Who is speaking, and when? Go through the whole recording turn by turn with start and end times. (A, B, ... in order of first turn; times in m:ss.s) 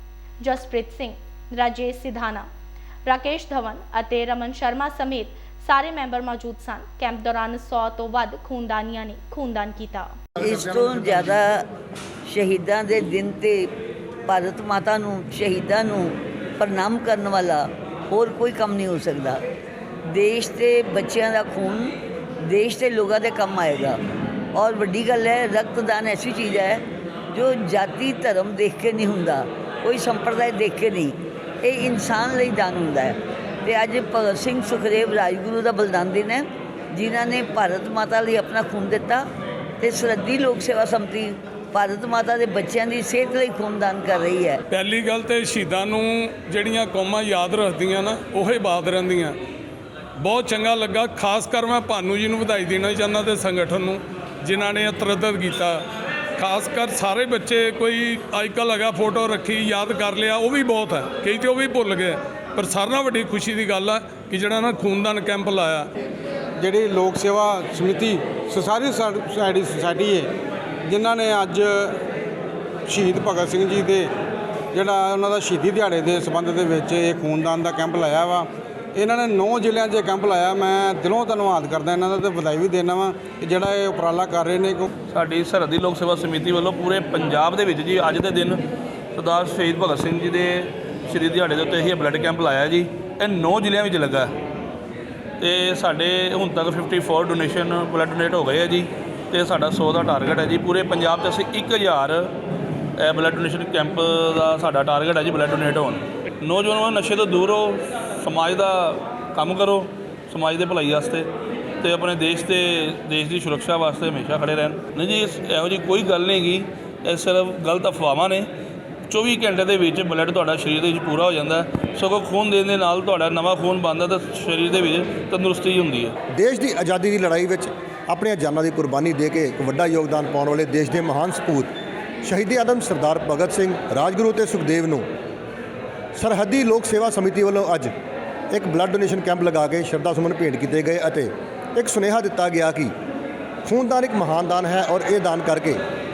0:00.4-0:02.5 A
0:03.0-0:10.1 A
0:10.4-0:11.7 B
0:12.2-0:13.7 B
0:14.2-0:19.4 B
0:20.1-0:24.0 B
0:24.5-0:39.3 B
0:39.8-0:44.6 B
0:44.7-0:49.3 C
0:50.2-0:55.8 C
0:56.4-1:05.9 C
1:06.6-1:10.3 D
1:10.9-1:11.9 D
1:12.9-1:14.1 D
1:14.7-1:24.9 D
1:25.1-1:28.6 E
1:29.1-1:34.3 E
1:35.4-1:42.3 E
1:43.0-1:51.3 E
1:51.8-1:58.5 E
1:59.1-2:06.1 E
2:06.3-2:11.7 F
2:12.2-2:15.0 F
2:16.2-2:17.9 F
2:18.5-2:22.9 F
2:23.6-2:25.8 F